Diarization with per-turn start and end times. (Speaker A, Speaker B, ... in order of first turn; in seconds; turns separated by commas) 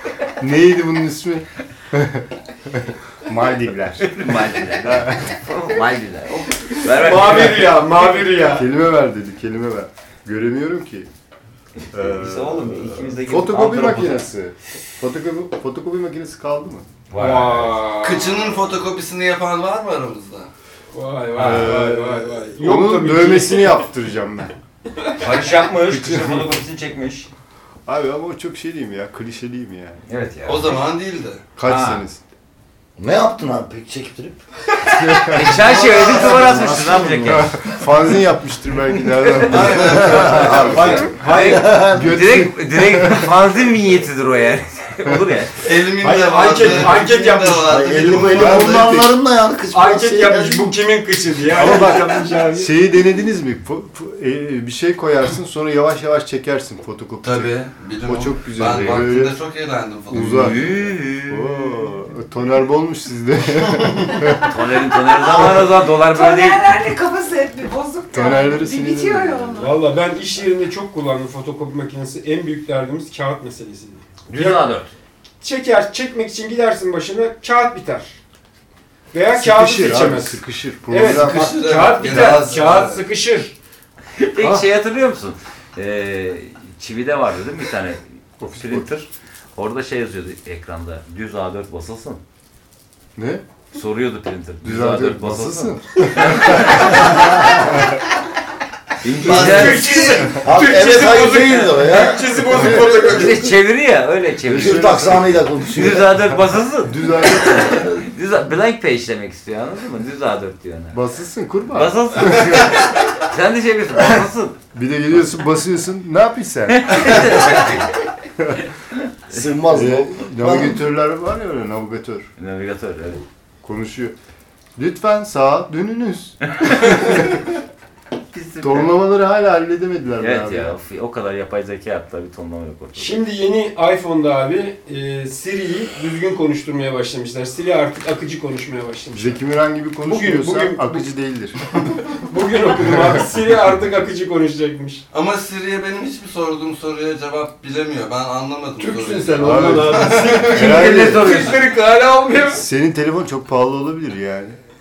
Speaker A: 0.4-5.4, Speaker B: 4.0-7.8, Speaker C: 6.8-8.7, Speaker A: 7.3-11.1, Speaker B: 11.8-14.3, Speaker A: 11.9-16.9, Speaker B: 17.1-17.8, Speaker C: 17.2-18.5, Speaker D: 18.0-20.5, Speaker C: 20.9-23.9, Speaker A: 21.4-24.5, Speaker B: 21.4-21.7, Speaker B: 25.2-27.3, Speaker A: 26.0-26.4, Speaker A: 27.9-30.0, Speaker B: 30.1-30.8, Speaker D: 30.5-31.4, Speaker A: 31.6-32.2, Speaker B: 31.6-32.0, Speaker E: 33.0-34.4, Speaker B: 34.9-37.6, Speaker A: 35.0-41.1, Speaker D: 35.6-36.3, Speaker E: 36.3-37.4, Speaker B: 39.2-39.5, Speaker D: 39.4-41.1, Speaker E: 40.0-42.2, Speaker B: 40.5-45.6, Speaker C: 40.7-41.7, Speaker A: 41.8-43.3, Speaker D: 45.6-49.0, Speaker C: 46.0-47.8, Speaker E: 47.7-50.8, Speaker A: 48.2-49.1, Speaker C: 49.7-52.7, Speaker A: 51.5-57.5, Speaker D: 57.2-60.7, Speaker A: 58.0-59.4, Speaker A: 60.1-60.6, Speaker B: 60.2-61.9, Speaker A: 61.3-64.5, Speaker B: 64.4-66.6, Speaker F: 65.2-69.8, Speaker A: 68.1-69.6, Speaker C: 69.6-74.7, Speaker B: 74.3-74.9, Speaker C: 75.4-78.2, Speaker C: 79.1-83.5, Speaker A: 79.4-81.7, Speaker D: 81.0-83.0, Speaker B: 84.2-88.0, Speaker A: 84.4-84.6, Speaker A: 88.4-88.9, Speaker B: 88.6-92.2, Speaker A: 93.2-93.4, Speaker B: 93.7-97.2, Speaker A: 94.6-97.2, Speaker E: 97.0-97.6, Speaker B: 99.0-100.4, Speaker C: 99.2-103.5, Speaker D: 99.2-100.3, Speaker E: 100.4-103.0, Speaker B: 103.0-111.0, Speaker A: 104.5-105.4, Speaker E: 104.5-106.3, Speaker A: 106.8-108.0, Speaker A: 110.9-113.0, Speaker B: 111.7-114.6, Speaker A: 114.7-117.7, Speaker B: 116.7-118.0, Speaker A: 118.4-118.6, Speaker E: 119.3-120.8, Speaker A: 119.7-122.3, Speaker B: 122.4-123.2, Speaker A: 123.6-124.2, Speaker A: 124.8-127.4, Speaker B: 126.6-127.2, Speaker B: 128.3-128.9, Speaker A: 128.6-130.8, Speaker B: 130.2-133.2, Speaker C: 133.0-139.4, Speaker A: 139.1-141.8, Speaker C: 140.0-141.1, Speaker C: 142.1-145.0, Speaker D: 145.1-150.8, Speaker C: 148.8-152.7, Speaker A: 149.4-151.6, Speaker A: 152.5-154.6